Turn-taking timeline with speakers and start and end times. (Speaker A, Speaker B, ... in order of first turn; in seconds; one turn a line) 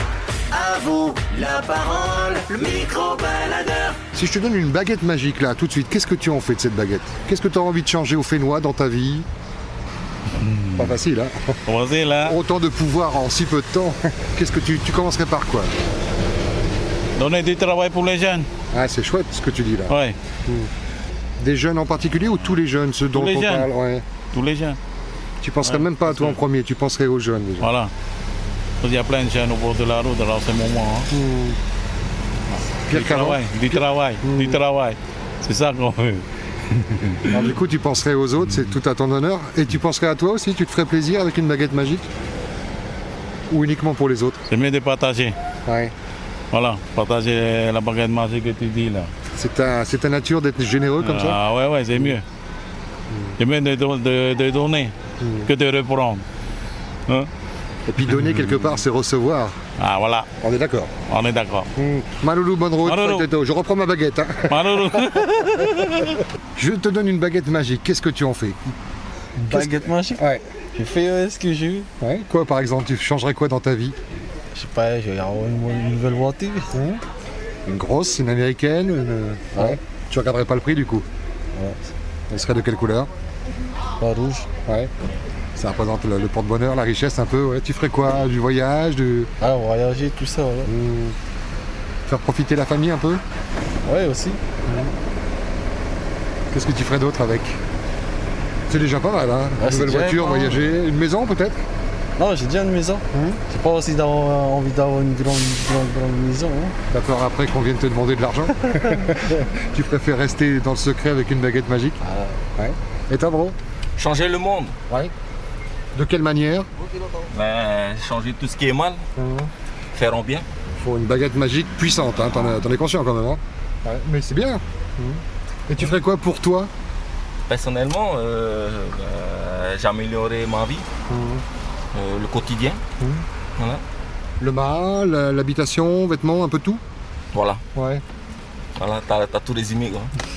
Speaker A: 0.5-4.0
Speaker B: 4.1-9.3
Speaker C: 10.3-10.9
Speaker B: 10.8-11.6
Speaker C: 11.7-12.4
Speaker B: 12.2-15.7
Speaker C: 17.2-18.5
Speaker B: 18.7-19.9
Speaker C: 19.9-20.2
Speaker B: 21.4-24.0
Speaker C: 23.1-23.7
Speaker C: 24.3-24.8
Speaker B: 25.4-27.7
Speaker C: 25.6-26.4
Speaker C: 27.6-27.9
Speaker C: 28.8-31.1
Speaker B: 31.1-31.6
Speaker B: 32.9-34.6
Speaker C: 32.9-37.4
Speaker B: 37.3-42.1
Speaker B: 43.5-44.4
Speaker C: 44.5-45.4
Speaker B: 45.7-45.9
Speaker C: 46.5-49.1
Speaker B: 49.4-51.4
Speaker C: 51.0-52.2
Speaker C: 53.4-54.9
Speaker B: 55.2-55.5
Speaker C: 55.4-56.2
Speaker B: 57.9-59.5
Speaker C: 59.8-60.3
Speaker B: 60.4-60.9
Speaker C: 61.1-61.7
Speaker B: 61.8-64.6
Speaker C: 62.8-63.3
Speaker C: 64.5-66.2
Speaker B: 66.6-68.6
Speaker B: 69.4-70.4
Speaker D: 69.5-71.9
Speaker B: 72.0-74.0
Speaker D: 74.5-76.7
Speaker B: 76.7-77.0
Speaker B: 77.6-81.1
Speaker D: 79.5-79.8
Speaker D: 81.5-81.9
Speaker B: 82.3-83.1
Speaker D: 84.0-84.5
Speaker B: 84.7-84.9
Speaker B: 85.6-89.3
Speaker D: 89.4-90.7
Speaker B: 90.7-91.2
Speaker B: 92.1-93.2
Speaker D: 93.8-94.4
Speaker B: 96.5-97.6
Speaker B: 98.7-101.6
Speaker D: 99.6-100.6
Speaker D: 102.2-106.8
Speaker B: 103.1-103.4
Speaker B: 106.9-112.0
Speaker D: 112.0-112.4
Speaker B: 112.6-113.6
Speaker E: 114.0-114.8
Speaker B: 115.9-116.7
Speaker E: 117.3-119.0
Speaker B: 119.2-119.5
Speaker E: 119.9-120.5
Speaker B: 120.8-126.7
Speaker E: 127.5-130.8
Speaker B: 131.1-131.4
Speaker E: 131.9-132.8
Speaker E: 133.6-133.8
Speaker B: 134.4-136.8
Speaker E: 137.3-137.6
Speaker B: 137.8-138.0
Speaker E: 138.8-140.1